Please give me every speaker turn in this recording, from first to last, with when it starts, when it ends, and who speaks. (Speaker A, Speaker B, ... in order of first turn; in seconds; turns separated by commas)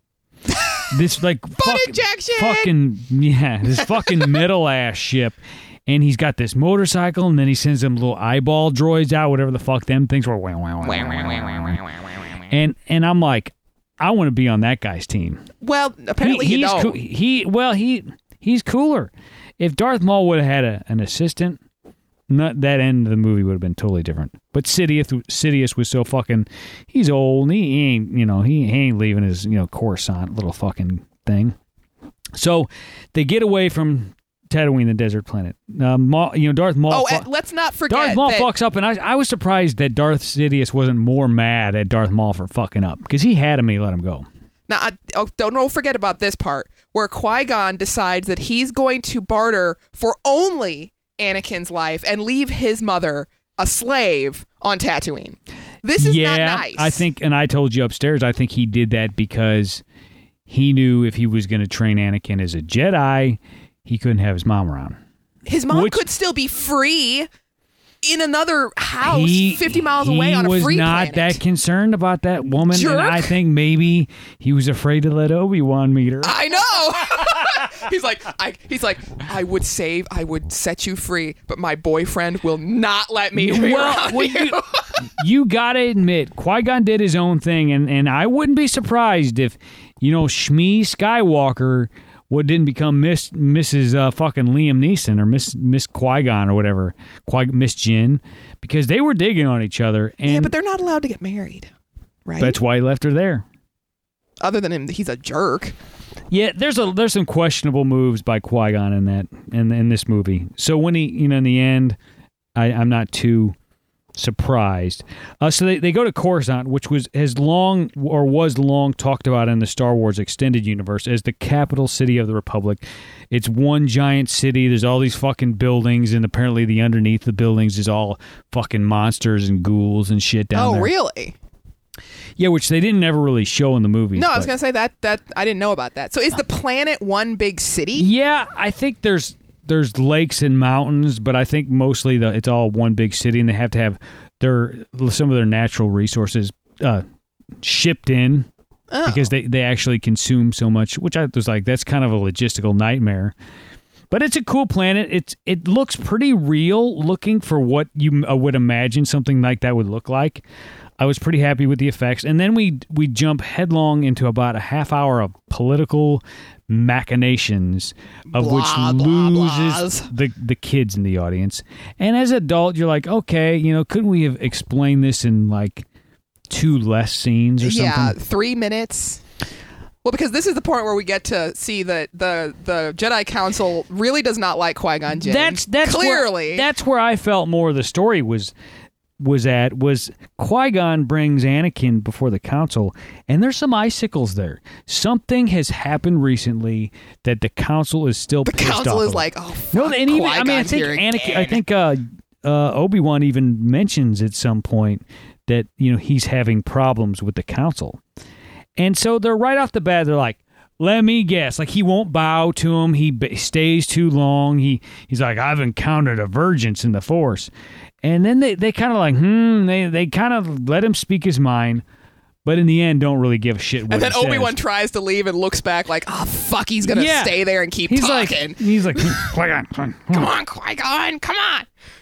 Speaker A: 0.6-0.8, Speaker B: 0.9-11.8, Speaker A: 1.6-2.7, Speaker A: 4.0-4.3, Speaker B: 12.5-15.4, Speaker A: 15.6-17.0, Speaker B: 16.2-21.6, Speaker B: 22.3-31.6, Speaker B: 32.3-37.3, Speaker A: 36.9-38.5, Speaker B: 37.9-44.3, Speaker A: 44.7-57.1, Speaker B: 56.0-59.8, Speaker B: 60.5-65.0, Speaker A: 65.5-67.3, Speaker B: 65.7-66.0, Speaker A: 68.0-71.4, Speaker B: 69.0-76.4, Speaker A: 72.7-73.3, Speaker A: 76.2-84.9, Speaker B: 83.4-100.5, Speaker A: 100.3-101.7, Speaker A: 102.3-102.6, Speaker B: 102.4-103.5, Speaker A: 104.4-105.8, Speaker B: 106.3-112.0, Speaker B: 112.5-113.6, Speaker B: 114.2-130.9, Speaker A: 130.5-131.4, Speaker B: 132.4-134.5, Speaker A: 134.2-138.1, Speaker B: 138.0-147.0, Speaker B: 147.6-148.5, Speaker A: 148.9-149.3, Speaker B: 149.1-153.3, Speaker B: 154.1-160.4, Speaker B: 161.0-175.9, Speaker A: 168.3-170.1, Speaker B: 176.5-178.2, Speaker A: 177.6-179.2, Speaker A: 180.0-186.7, Speaker B: 185.2-188.5, Speaker B: 189.2-208.0, Speaker A: 198.4-201.6, Speaker B: 208.8-217.5, Speaker B: 218.0-221.8, Speaker B: 222.4-224.6, Speaker A: 223.9-229.3, Speaker B: 226.8-230.3, Speaker A: 230.1-231.7